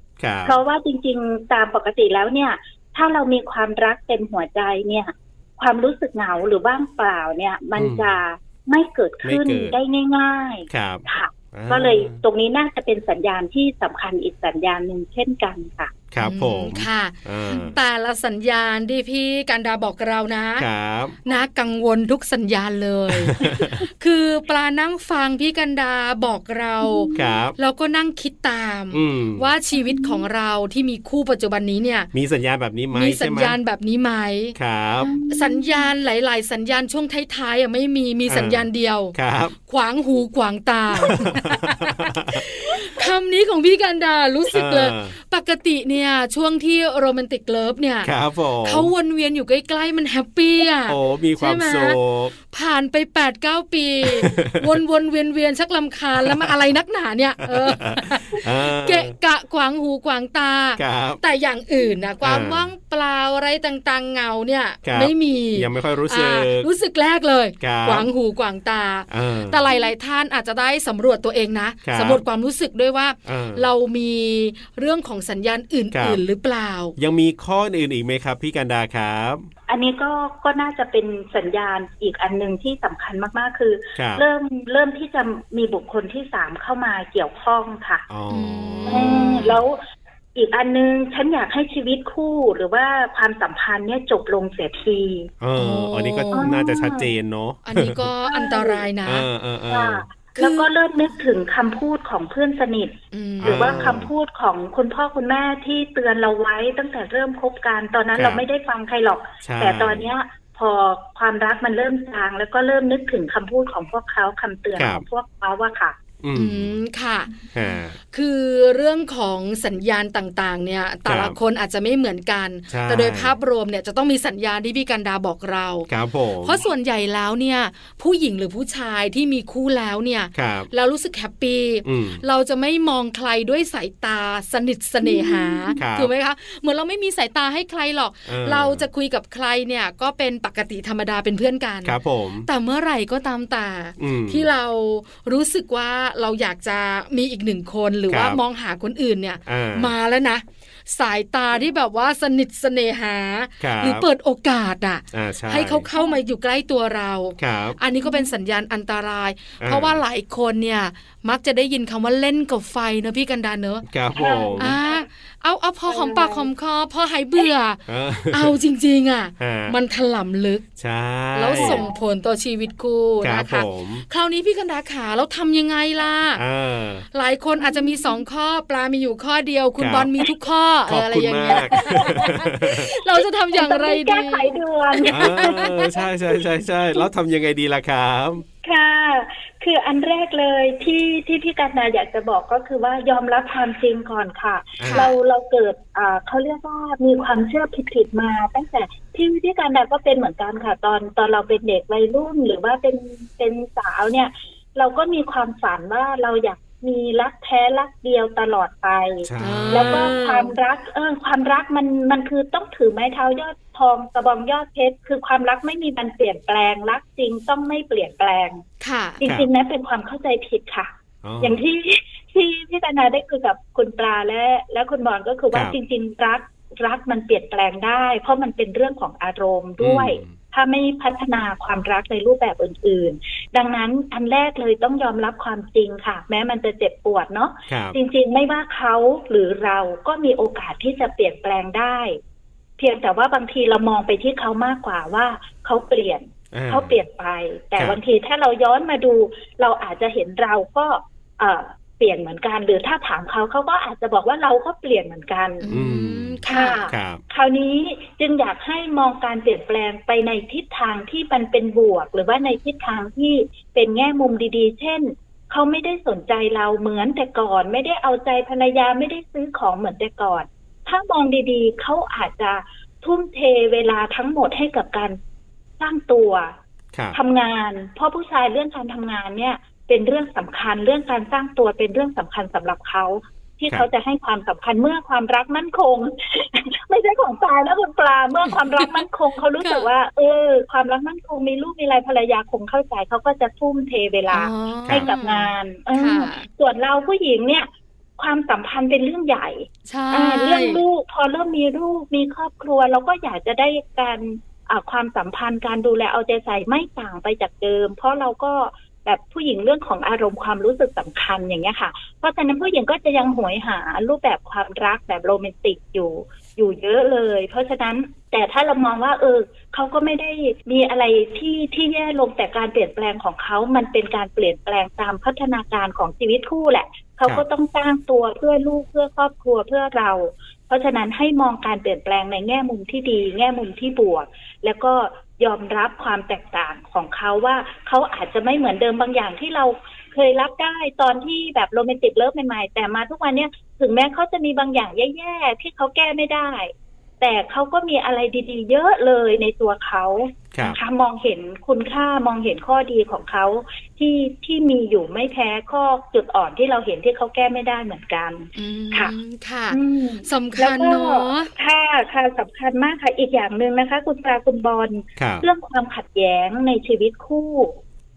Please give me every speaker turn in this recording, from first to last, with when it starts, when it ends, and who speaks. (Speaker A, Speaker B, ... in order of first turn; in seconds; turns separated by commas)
Speaker A: 0.2-0.6, Speaker B: 0.5-15.9, Speaker A: 7.8-8.1, Speaker A: 9.2-9.8, Speaker A: 10.7-12.2, Speaker A: 16.1-17.8, Speaker C: 16.2-20.7, Speaker A: 20.6-21.2, Speaker C: 21.3-32.1, Speaker A: 23.1-23.8, Speaker B: 26.8-27.4, Speaker A: 27.1-27.6, Speaker A: 28.9-29.5, Speaker B: 29.7-30.3, Speaker A: 32.1-33.6, Speaker C: 32.9-34.6, Speaker A: 34.6-35.1, Speaker B: 35.0-35.9, Speaker C: 35.3-39.1, Speaker A: 38.3-39.6, Speaker C: 39.7-52.0, Speaker A: 41.0-42.4, Speaker A: 44.5-45.1, Speaker A: 48.0-48.9, Speaker A: 50.9-52.3, Speaker C: 52.5-76.9, Speaker A: 54.0-54.7, Speaker A: 56.2-56.6, Speaker A: 57.4-59.1, Speaker A: 60.8-61.2, Speaker A: 62.2-62.7, Speaker A: 64.8-66.7, Speaker A: 67.6-68.1, Speaker A: 69.1-69.6, Speaker A: 71.8-72.2, Speaker A: 73.3-73.7, Speaker A: 75.9-76.2, Speaker A: 77.0-79.5, Speaker B: 79.7-88.1, Speaker A: 84.0-84.2, Speaker A: 88.1-89.6, Speaker C: 88.3-89.6, Speaker B: 88.9-89.8, Speaker B: 90.3-95.3, Speaker A: 95.4-98.0, Speaker C: 95.6-96.5, Speaker B: 96.3-97.1, Speaker C: 97.7-99.3, Speaker B: 98.2-98.9, Speaker A: 99.0-100.0, Speaker B: 99.7-116.0, Speaker C: 100.4-100.7, Speaker C: 103.1-103.9, Speaker A: 103.4-104.1, Speaker A: 108.2-108.4, Speaker A: 109.4-110.0, Speaker A: 114.8-115.0, Speaker A: 116.2-116.8, Speaker C: 116.3-117.3, Speaker A: 117.5-118.0, Speaker C: 118.1-125.9, Speaker A: 121.1-121.4, Speaker A: 122.7-123.3, Speaker A: 125.9-126.6, Speaker C: 126.4-163.9, Speaker A: 130.3-130.7, Speaker A: 131.8-132.2, Speaker B: 135.0-135.8, Speaker A: 135.8-136.1, Speaker A: 138.3-138.9, Speaker A: 141.8-142.5, Speaker A: 144.0-144.5, Speaker A: 148.1-148.4, Speaker A: 149.5-149.9, Speaker A: 153.6-154.1, Speaker A: 155.1-155.9, Speaker A: 157.4-157.8, Speaker B: 158.0-158.3, Speaker A: 159.6-160.0, Speaker A: 163.8-164.8, Speaker B: 164.2-165.0, Speaker C: 164.6-170.7, Speaker B: 165.9-166.5, Speaker A: 167.9-168.6, Speaker A: 169.4-169.8, Speaker A: 170.8-171.8, Speaker C: 171.3-176.4, Speaker B: 171.6-171.9, Speaker A: 173.2-174.1, Speaker A: 176.3-177.1, Speaker C: 177.1-185.8, Speaker B: 177.6-178.2, Speaker A: 179.8-180.1, Speaker A: 180.9-182.9, Speaker B: 181.5-185.9, Speaker A: 185.1-188.4, Speaker B: 188.6-218.6, Speaker A: 194.8-195.1, Speaker C: 194.9-195.2, Speaker A: 209.2-210.1, Speaker C: 209.4-210.5, Speaker C: 218.8-219.2, Speaker B: 219.2-242.2, Speaker A: 221.2-221.6, Speaker A: 229.8-230.3, Speaker A: 237.7-238.0, Speaker B: 242.8-255.7, Speaker A: 246.5-247.0, Speaker C: 255.6-256.8, Speaker A: 255.7-257.2, Speaker B: 256.5-275.2, Speaker B: 275.8-276.5, Speaker B: 277.1-359.1, Speaker C: 288.8-289.0, Speaker C: 289.6-289.9, Speaker C: 294.3-296.5, Speaker C: 299.9-300.8, Speaker A: 350.5-350.8, Speaker C: 358.6-361.5, Speaker B: 359.7-367.8, Speaker A: 365.2-365.4